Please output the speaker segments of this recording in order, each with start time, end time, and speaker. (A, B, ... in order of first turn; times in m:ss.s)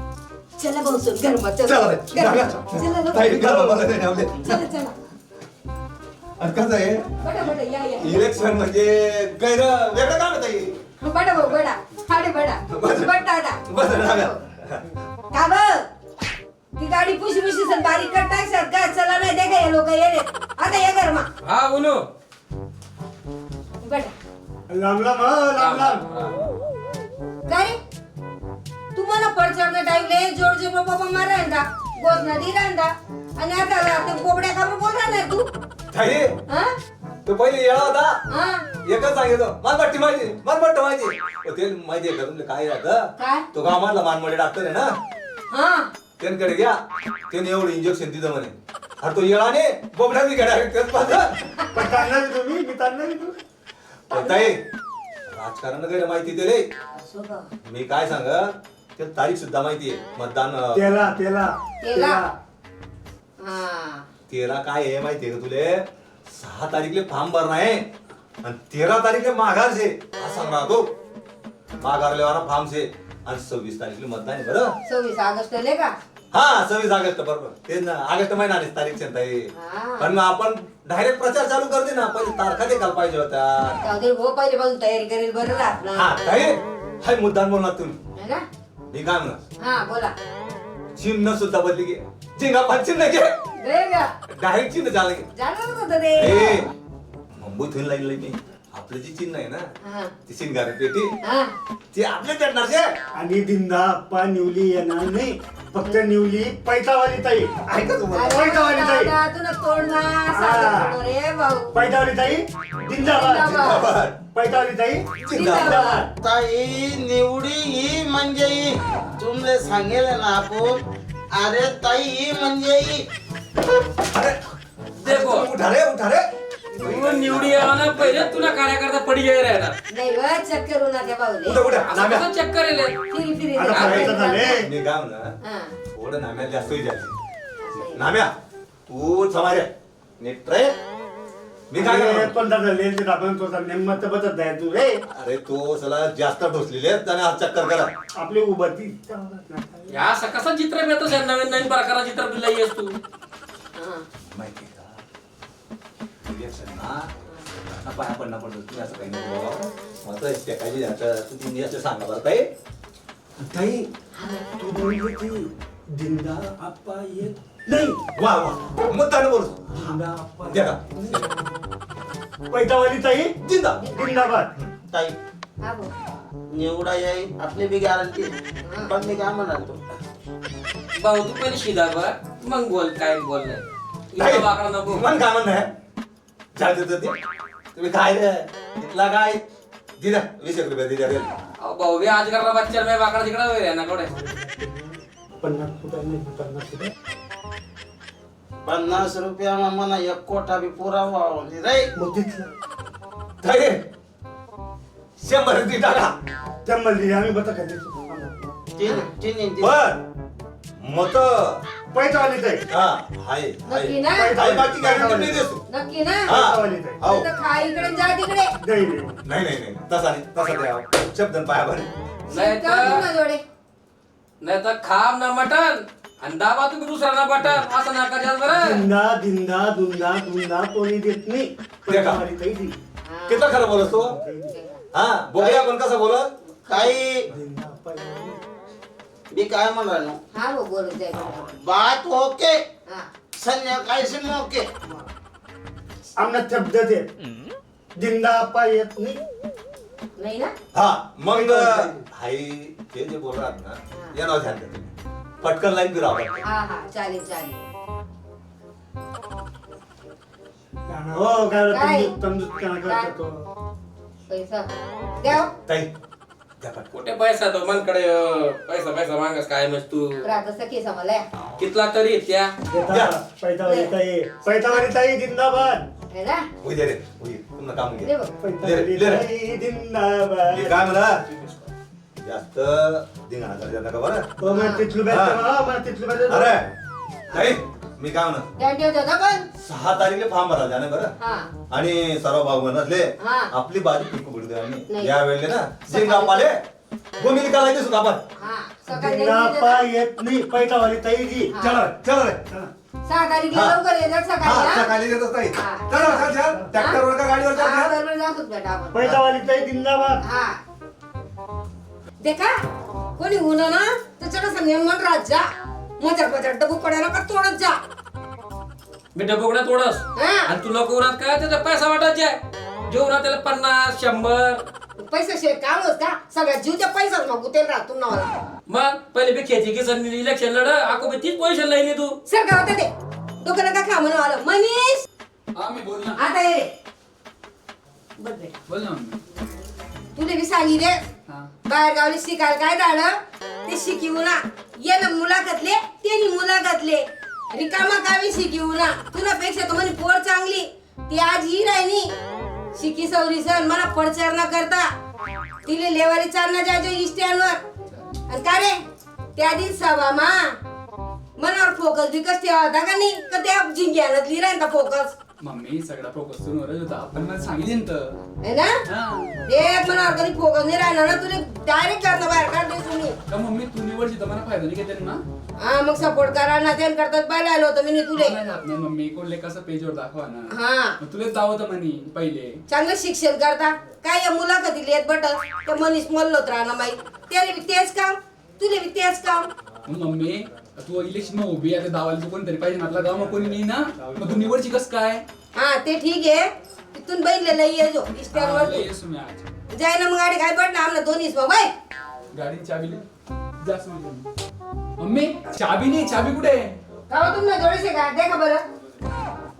0:00.6-0:04.9 A
0:01.6-0:04.6 B
0:06.4-0:07.5 B
0:07.2-0:08.2 A
0:08.0-0:10.8 B
0:11.0-0:14.4 A
0:12.7-0:13.1 B
0:13.7-0:14.8 B
0:15.3-0:15.8 A
0:16.7-0:21.3 A
0:21.4-0:22.0 C
0:23.8-0:24.1 A
0:24.7-0:26.0 D
0:25.6-0:26.3 C
0:27.5-0:27.8 A
0:28.9-0:35.5 A
0:35.9-0:36.3 B
0:37.2-0:38.2 B
0:38.3-0:38.6 A
0:38.8-0:44.9 B
0:43.2-0:43.4 A
0:45.5-0:45.9 A
0:46.2-0:46.8 B
0:47.3-0:51.4 B
0:51.7-0:53.4 D
0:54.1-0:54.6 B
0:54.1-0:54.5 A
0:55.3-0:56.6 B
0:56.9-0:57.5 A
0:57.6-1:01.1 B
1:00.7-1:02.3 D
1:01.8-1:02.2 A
1:03.4-1:04.0 A
1:04.3-1:07.9 B
1:08.4-1:10.9 B
1:11.8-1:14.7 B
1:14.8-1:15.9 A
1:16.3-1:23.8 B
1:19.6-1:20.1 A
1:23.8-1:26.1 A
1:25.9-1:28.0 B
1:28.2-1:28.4 A
1:28.9-1:29.4 B
1:29.6-1:30.1 A
1:31.0-1:33.3 B
1:33.6-1:34.1 A
1:34.3-1:35.3 B
1:35.4-1:36.6 A
1:36.2-1:36.7 B
1:37.4-1:39.6 B
1:39.8-1:40.1 A
1:40.2-1:41.1 B
1:41.2-1:41.5 A
1:41.9-1:42.9 B
1:43.1-1:49.1 D
1:47.7-1:48.3 B
1:48.1-1:51.7 A
1:50.3-1:51.0 D
1:51.7-1:53.7 D
1:53.0-1:53.9 A
1:53.4-1:54.2 B
1:54.3-1:55.0 D
1:55.2-1:55.9 B
1:55.3-1:56.0 A
1:55.7-1:56.1 D
1:56.2-2:00.8 E
2:01.3-2:03.0 E
2:04.1-2:04.4 B
2:05.0-2:08.6 B
2:05.0-2:05.5 C
2:06.8-2:09.8 C
2:09.9-2:11.6 A
2:11.4-2:12.3 B
2:11.8-2:13.0 C
2:13.1-2:14.6 A
2:13.5-2:14.6 D
2:13.6-2:14.0 C
2:13.8-2:15.3 B
2:15.4-2:15.7 A
2:15.9-2:17.2 B
2:17.6-2:18.1 A
2:17.8-2:18.3 B
2:18.9-2:20.8 B
2:21.7-2:22.3 B
2:21.8-2:24.9 D
2:25.2-2:27.9 B
2:28.1-2:29.9 D
2:29.9-2:33.0 C
2:33.8-2:34.0 A
2:34.3-2:35.0 B
2:36.2-2:37.1 B
2:37.8-2:42.5 B
2:43.4-2:43.9 B
2:44.1-2:44.6 A
2:44.6-2:48.0 D
2:48.1-2:50.0 B
2:49.8-2:51.1 D
2:50.5-2:51.3 B
2:51.1-2:51.4 A
2:52.5-2:53.3 D
2:53.4-2:53.9 B
2:53.8-2:54.3 A
2:53.9-2:54.5 D
2:54.9-2:55.2 E
2:55.6-2:55.9 A
2:56.5-2:59.8 E
2:58.6-2:58.9 A
3:01.0-3:05.0 C
3:04.2-3:05.7 B
3:06.5-3:07.1 B
3:07.7-3:09.4 B
3:10.0-3:11.3 B
3:11.6-3:14.1 C
3:14.1-3:16.9 D
3:18.6-3:21.9 E
3:21.9-3:22.5 D
3:23.4-3:23.8 B
3:25.2-3:26.1 B
3:26.6-3:28.5 D
3:28.7-3:29.8 E
3:28.8-3:29.1 A
3:29.6-3:30.0 B
3:30.8-3:31.6 B
3:31.9-3:32.6 D
3:32.7-3:35.6 B
3:33.6-3:34.4 A
3:34.1-3:35.5 D
3:35.6-3:36.3 A
3:36.2-3:37.3 B
3:36.3-3:37.0 D
3:37.1-3:38.5 A
3:38.6-3:39.2 D
3:39.2-3:41.9 B
3:42.3-3:43.4 A
3:42.3-3:43.0 C
3:44.4-3:48.8 C
3:48.5-3:52.7 D
3:51.9-3:52.2 B
3:53.0-3:53.6 A
3:53.3-3:54.1 B
3:53.8-3:54.5 D
3:54.4-3:54.8 A
3:54.9-3:56.3 B
3:55.4-3:55.7 E
3:56.7-3:57.3 E
3:57.3-3:58.4 D
3:59.3-4:00.2 E
4:00.3-4:01.3 A
4:01.2-4:02.6 E
4:03.3-4:05.0 E
4:06.2-4:07.0 D
4:08.0-4:09.2 D
4:10.2-4:10.5 A
4:10.7-4:16.4 B
4:11.3-4:11.9 D
4:16.4-4:17.6 A
4:20.9-4:23.3 D
4:21.7-4:22.2 A
4:22.8-4:23.1 A
4:24.3-4:25.5 A
4:25.2-4:25.9 B
4:26.6-4:26.9 B
4:26.9-4:30.2 C
4:30.2-4:31.2 A
4:31.6-4:32.5 C
4:32.7-4:35.9 D
4:32.9-4:33.1 B
4:33.6-4:33.9 A
4:36.1-4:36.4 A
4:36.6-4:38.1 B
4:38.0-4:38.3 A
4:38.4-4:40.8 D
4:38.6-4:39.2 B
4:40.5-4:41.2 B
4:42.2-4:44.3 B
4:44.4-4:46.5 D
4:44.5-4:44.9 A
4:45.1-4:45.4 B
4:46.3-4:46.6 B
4:47.3-4:48.5 B
4:48.6-4:49.5 A
4:49.6-4:51.1 B
4:51.2-4:51.5 A
4:51.7-4:56.6 B
4:53.2-4:53.5 A
4:55.9-4:56.5 A
4:57.2-4:58.2 B
4:58.4-4:59.9 A
4:58.9-5:01.5 D
5:01.5-5:01.8 A
5:01.6-5:02.4 B
5:03.1-5:04.9 A
5:03.5-5:03.8 B
5:04.4-5:07.9 B
5:05.5-5:07.0 A
5:07.5-5:09.2 A
5:08.9-5:10.2 D
5:10.2-5:10.6 A
5:12.2-5:12.5 A
5:13.2-5:15.4 A
5:16.0-5:17.8 A
5:19.1-5:22.4 C
5:20.1-5:20.5 A
5:22.9-5:24.6 C
5:25.0-5:28.3 A
5:28.7-5:32.1 C
5:32.2-5:32.9 A
5:33.4-5:35.0 A
5:35.6-5:36.2 F
5:36.2-5:36.7 A
5:38.2-5:38.6 A
5:38.7-5:39.2 F
5:40.1-5:41.0 A
5:41.6-5:52.1 A
5:52.7-5:54.9 A
5:55.6-5:57.6 A
5:57.9-5:58.1 F
5:58.3-5:58.8 A
5:59.4-6:00.5 A
6:01.4-6:05.1 A
6:05.4-6:08.2 F
6:08.4-6:08.7 A
6:08.8-6:09.3 F
6:09.5-6:13.1 A
6:13.3-6:15.2 F
6:15.6-6:18.4 A
6:18.1-6:22.6 F
6:20.5-6:21.0 A
6:22.7-6:29.5 A
6:29.9-6:35.2 F
6:35.6-6:38.9 A
6:38.3-6:39.4 F
6:39.7-6:41.7 A
6:42.3-6:43.0 F
6:43.6-6:44.2 F
6:45.0-6:46.8 F
6:47.1-6:48.6 A